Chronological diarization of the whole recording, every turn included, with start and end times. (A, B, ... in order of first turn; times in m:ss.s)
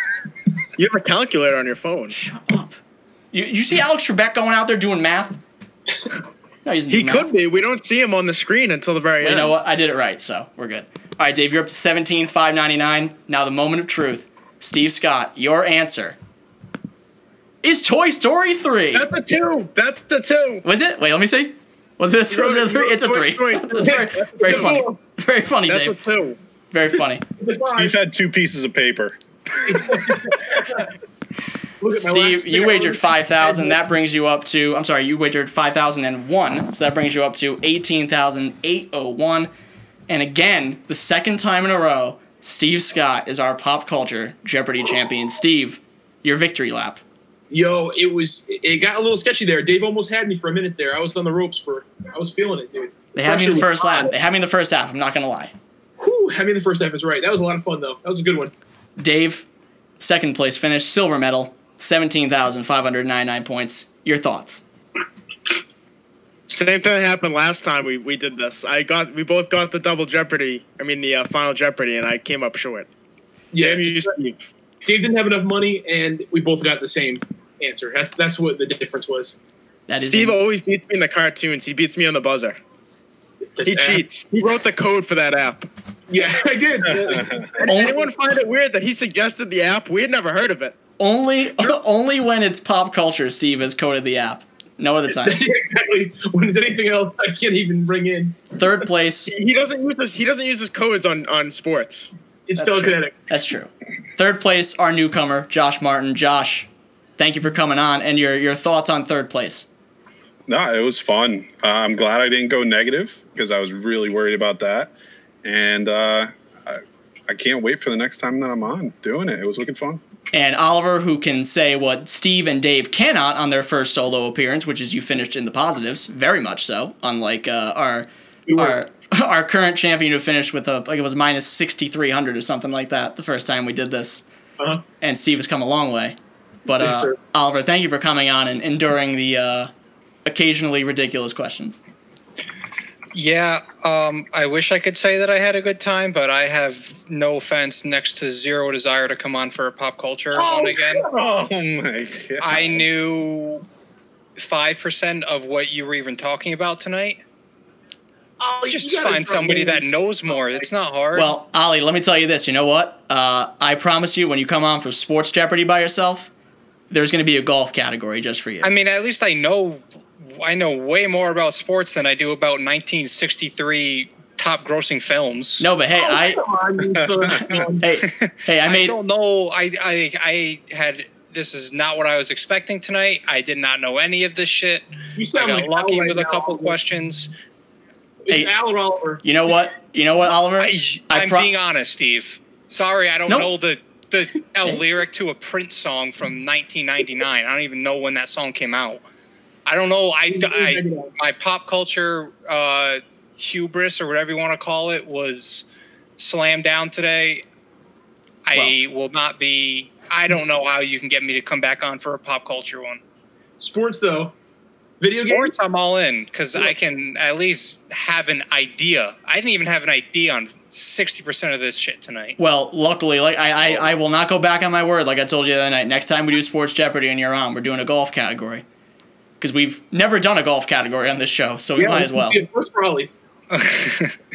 0:00.8-0:02.2 A
0:02.1-0:02.8 B
0:03.3-0:05.4 B
0:06.6-0:07.3 B
0:06.9-0:09.6 A
0:09.2-0:16.2 B
0:17.6-0:19.1 B
0:18.9-0:20.6 A
0:20.6-0:26.0 B
0:22.3-0:25.0 A
0:24.4-0:24.9 C
0:25.7-0:26.4 A
0:26.7-0:27.2 B
0:27.4-0:28.0 C
0:27.6-0:30.0 D
0:29.6-0:30.8 C
0:31.8-0:33.8 C
0:31.9-0:39.5 B
0:40.1-0:47.0 B
0:47.5-0:54.1 C
0:53.1-0:55.5 B
0:56.0-0:58.5 C
0:59.0-0:59.4 B
1:00.0-1:04.6 B
1:06.5-1:12.9 A
1:13.5-1:14.2 C
1:13.6-1:14.5 A
1:14.8-1:19.4 C
1:19.9-1:20.4 B
1:20.0-1:22.6 A
1:23.5-1:24.0 C
1:23.6-1:25.7 A
1:26.1-1:28.1 C
1:27.1-1:27.4 D
1:27.6-1:30.7 A
1:31.0-1:35.4 B
1:35.2-1:38.4 C
1:38.5-1:39.3 B
1:39.3-1:42.1 A
1:42.5-1:43.1 C
1:42.6-1:49.7 B
1:50.5-1:54.9 D
1:55.4-2:00.0 D
2:00.3-2:14.2 B
2:08.5-2:08.8 C
2:15.0-2:19.7 B
2:16.7-2:17.2 C
2:20.2-2:21.8 B
2:23.1-2:31.0 E
2:30.6-2:32.9 D
2:32.4-2:33.6 E
2:34.4-2:37.2 E
2:38.4-2:40.6 C
2:38.7-2:41.3 E
2:41.1-2:46.3 B
2:46.9-2:48.7 B
2:48.6-2:55.6 E
2:55.6-2:56.4 B
2:56.0-2:57.9 C
2:57.0-2:57.6 D
2:57.8-2:59.0 B
2:58.0-3:07.3 E
3:05.2-3:06.8 C
3:08.2-3:09.2 C
3:09.2-3:11.5 B
3:10.6-3:19.0 E
3:19.6-3:27.4 E
3:20.3-3:21.1 C
3:28.4-3:33.0 E
3:33.6-3:34.3 C
3:35.0-3:35.5 C
3:35.1-3:42.4 E
3:42.4-3:48.6 B
3:49.4-3:52.4 B
3:51.8-3:53.1 C
3:53.5-3:54.2 E